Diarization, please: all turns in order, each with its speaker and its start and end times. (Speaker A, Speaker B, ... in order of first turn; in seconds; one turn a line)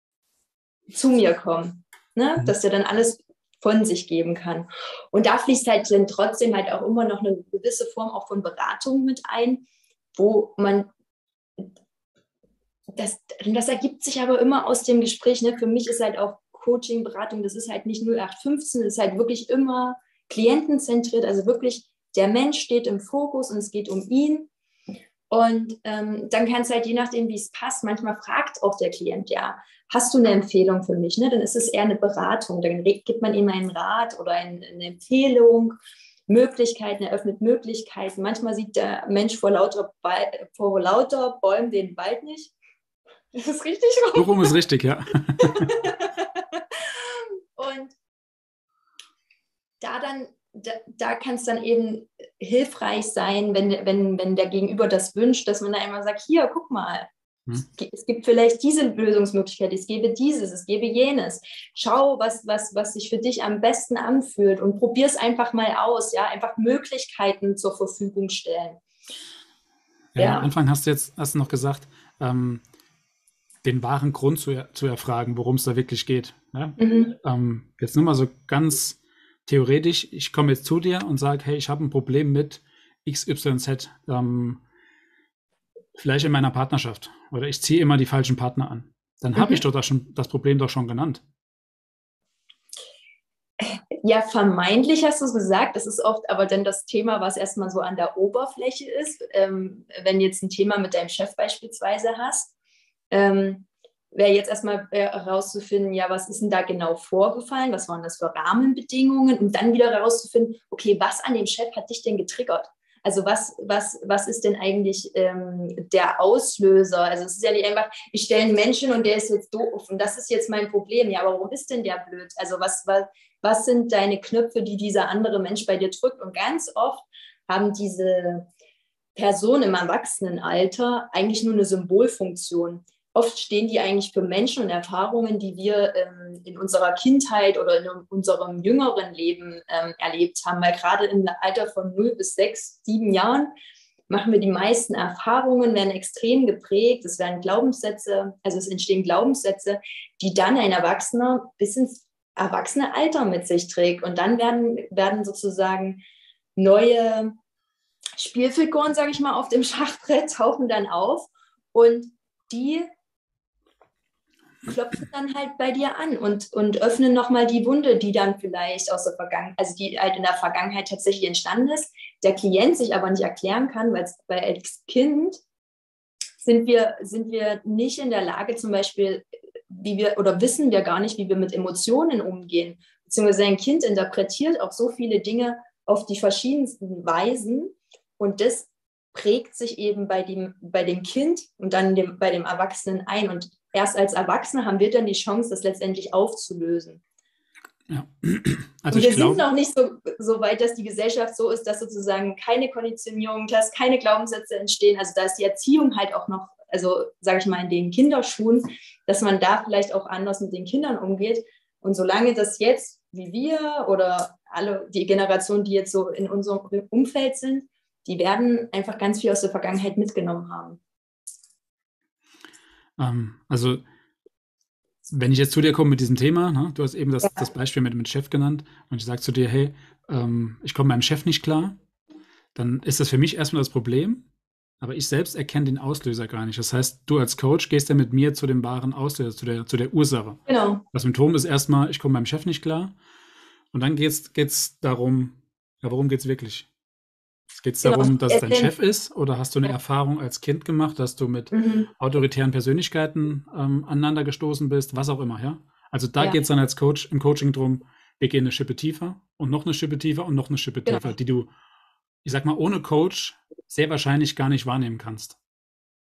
Speaker A: 0.9-10.9
Speaker A: 12.9-24.5
Speaker A: 25.3-35.8
Speaker A: 36.3-42.5
Speaker A: 43.3-44.5
Speaker B: 44.1-45.8
Speaker A: 45.4-47.9
Speaker A: 49.8-57.1
Speaker A: 57.6-68.8
Speaker B: 70.1-72.6
Speaker A: 70.2-70.5
Speaker B: 73.6-84.6
Speaker A: 76.8-77.1
Speaker B: 86.0-91.2
Speaker A: 93.6-102.5
Speaker A: 103.1-128.5
Speaker A: 129.1-143.5
Speaker A: 144.1-156.0
Speaker A: 156.6-157.3
Speaker A: 158.2-162.9
Speaker A: 164.6-175.4
Speaker A: 176.4-197.0
Speaker B: 197.9-199.4
Speaker A: 198.9-220.8
Speaker B: 223.0-223.8
Speaker B: 225.1-231.8
Speaker B: 232.5-234.2
Speaker B: 234.8-240.4
Speaker A: 240.5-240.8
Speaker B: 240.9-242.9
Speaker B: 243.7-246.7
Speaker B: 247.6-261.5
Speaker A: 247.8-248.7
Speaker A: 251.5-251.9
Speaker A: 260.9-261.1
Speaker B: 262.2-265.4